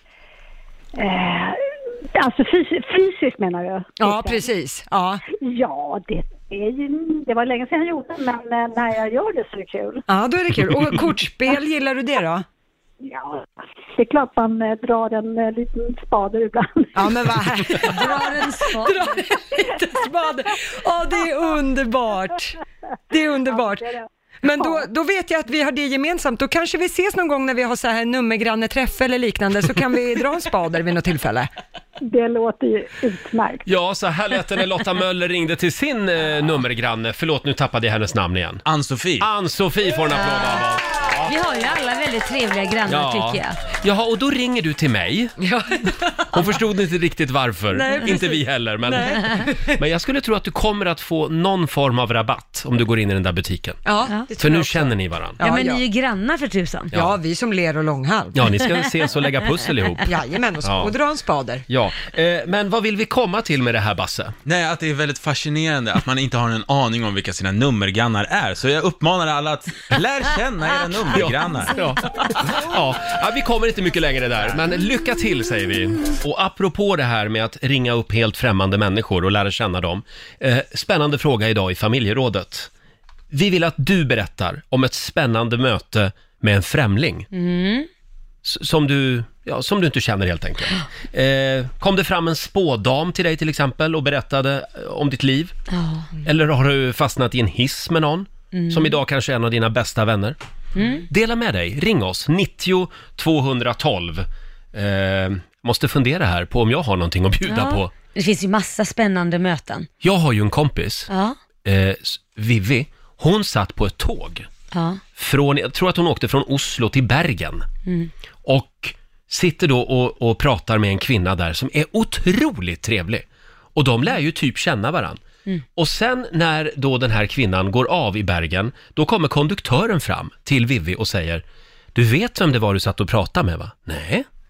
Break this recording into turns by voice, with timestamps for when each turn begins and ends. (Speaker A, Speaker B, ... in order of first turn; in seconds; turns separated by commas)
Speaker A: 0.9-1.6, Speaker A: 2.1-4.4, Speaker B: 4.0-5.2, Speaker A: 5.3-10.0, Speaker B: 10.1-12.4, Speaker A: 13.0-17.2, Speaker B: 16.9-22.6, Speaker C: 17.8-19.2, Speaker B: 23.1-23.9, Speaker A: 23.5-24.1, Speaker B: 24.4-31.5, Speaker A: 24.6-24.8, Speaker A: 32.0-33.6, Speaker D: 33.6-38.6, Speaker E: 38.6-39.2, Speaker D: 39.2-41.3, Speaker C: 40.1-40.6, Speaker C: 41.2-43.6, Speaker D: 42.9-45.3, Speaker B: 45.4-46.2, Speaker D: 46.3-53.8, Speaker B: 47.8-49.7, Speaker B: 53.8-55.8, Speaker D: 54.4-55.4, Speaker C: 55.4-56.9, Speaker B: 56.9-58.4, Speaker D: 58.3-60.1, Speaker B: 60.0-61.6, Speaker D: 60.6-60.9, Speaker D: 61.7-64.4, Speaker E: 64.4-71.7, Speaker D: 71.1-82.7, Speaker D: 83.3-87.3, Speaker C: 87.3-87.9, Speaker D: 88.4-95.5, Speaker C: 95.7-96.1, Speaker D: 96.2-100.3, Speaker C: 98.5-99.0, Speaker C: 100.8-101.0, Speaker D: 101.1-107.9, Speaker C: 107.5-109.9, Speaker D: 110.0-111.1, Speaker C: 111.1-111.4, Speaker D: 111.6-114.5, Speaker C: 114.7-115.0, Speaker D: 115.2-117.7, Speaker C: 117.8-118.1, Speaker D: 118.5-125.2, Speaker D: 125.8-131.4, Speaker D: 131.9-134.2